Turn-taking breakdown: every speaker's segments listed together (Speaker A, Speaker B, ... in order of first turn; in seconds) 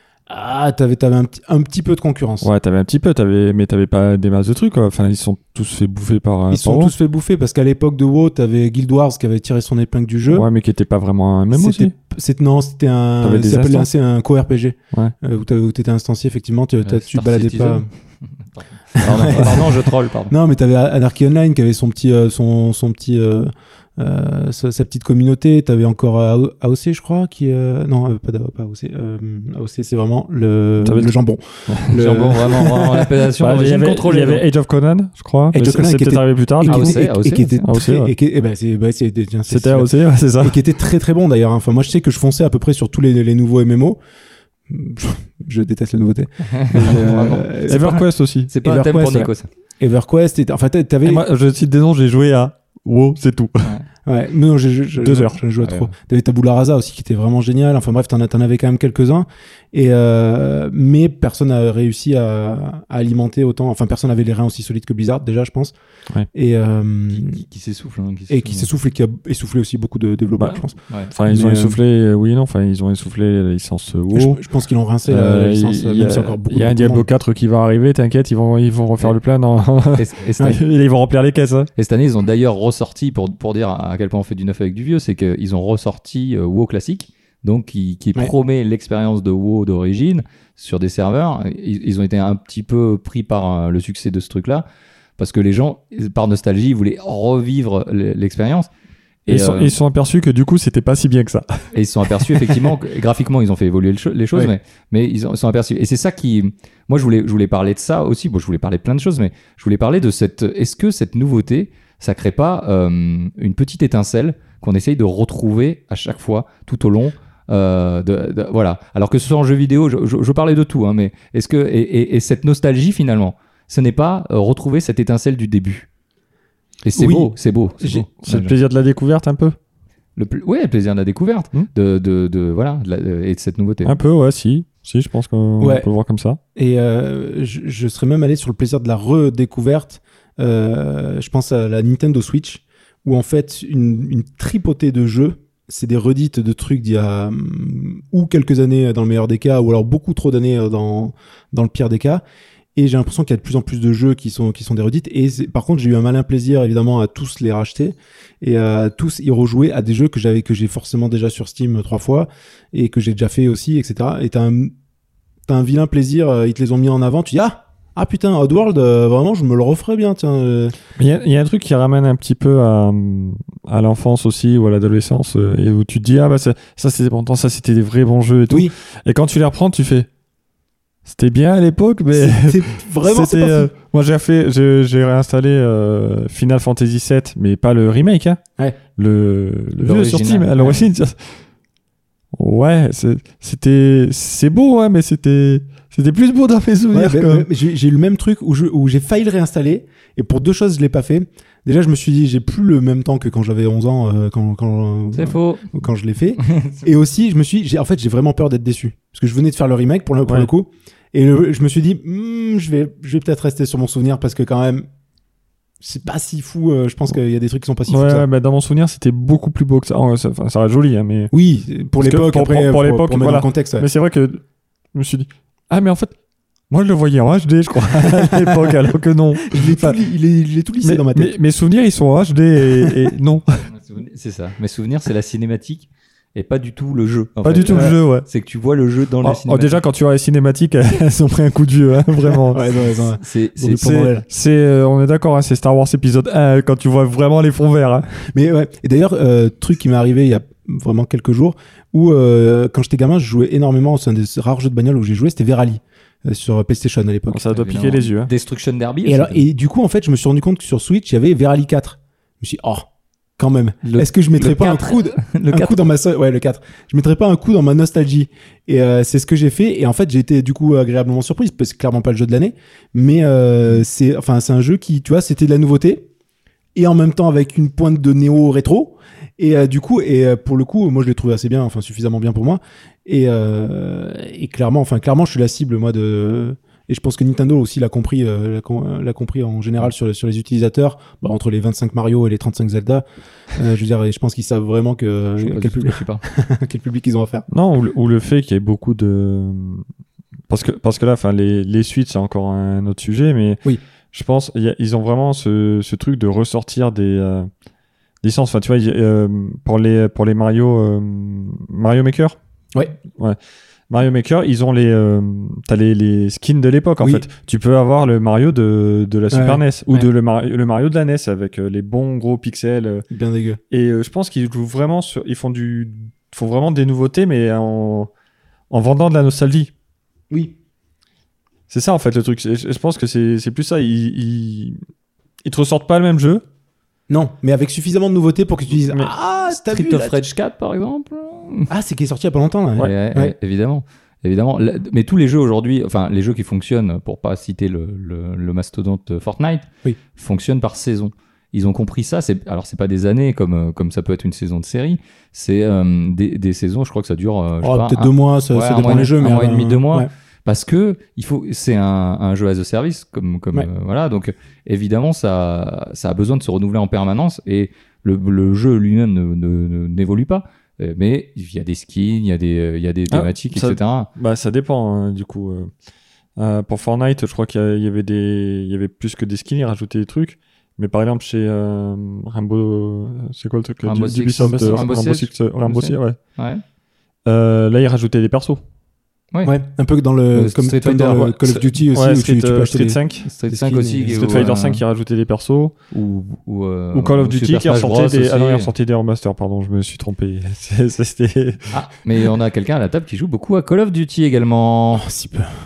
Speaker A: 0.3-2.5, 6.5-10.5, 11.5-17.9, 18.9-33.1, 35.5-44.0, 44.7-48.0, 48.6-51.2, 54.1-65.7, 66.3-67.4, 68.3-71.8, 74.1-77.1, 127.0-128.1, 135.6-135.9, 136.6-152.2, 152.8-164.7, 165.5-170.8, 182.1-183.7, 196.9-214.9, 215.8-218.3, 221.3-223.9, 228.1-228.6, 229.5-231.4, 232.8-233.0, 237.7-238.0, 242.4-244.3, 248.3-257.4, 259.1-276.1, 276.8-297.5, 319.3-320.1, 323.1-323.6, 330.3-330.6, 337.1-340.2, 341.7-343.3, 357.6-360.1, 384.4-384.9, 389.4-394.5, 404.9-405.5
Speaker B: 2.4-6.9, 10.3-11.9, 13.2-13.9, 30.8-31.1, 31.7-32.0, 33.4-38.1, 39.5-40.6, 47.7-48.5, 51.0-53.7, 55.0-55.4, 71.1-74.4, 75.0-81.7, 99.3-102.3, 128.2-129.6, 133.8-136.4, 171.0-180.1, 181.1-188.4, 189.0-191.4, 192.3-197.5, 217.9-221.3, 222.0-224.4, 224.9-226.1, 226.7-230.0, 230.8-233.6, 237.4-238.3, 239.2-242.7, 243.8-248.1, 257.3-258.3, 297.5-299.9, 300.5-307.5, 308.2-312.4, 313.9-323.1, 323.7-328.1, 328.7-329.7, 331.7-334.8, 335.4-336.4, 373.1-375.7, 376.4-386.2, 387.3-388.6, 391.8-393.3, 394.1-395.7, 396.9-401.7
Speaker C: 16.8-20.4, 31.9-34.4, 36.7-37.6, 46.5-48.0, 48.5-49.5, 55.6-55.9, 67.2-68.7, 80.0-80.6, 81.8-94.7, 95.2-98.7, 99.3-99.7, 101.7-125.9, 126.8-128.5, 130.2-134.0, 189.8-190.8, 205.1-205.7, 206.4-206.8, 233.7-239.8, 243.2-243.9, 257.5-259.5, 263.8-265.9, 295.4-296.2, 339.5-341.7, 342.8-374.1, 383.8-386.6, 390.3-391.6, 393.3-394.8, 395.9-398.7, 401.7-405.1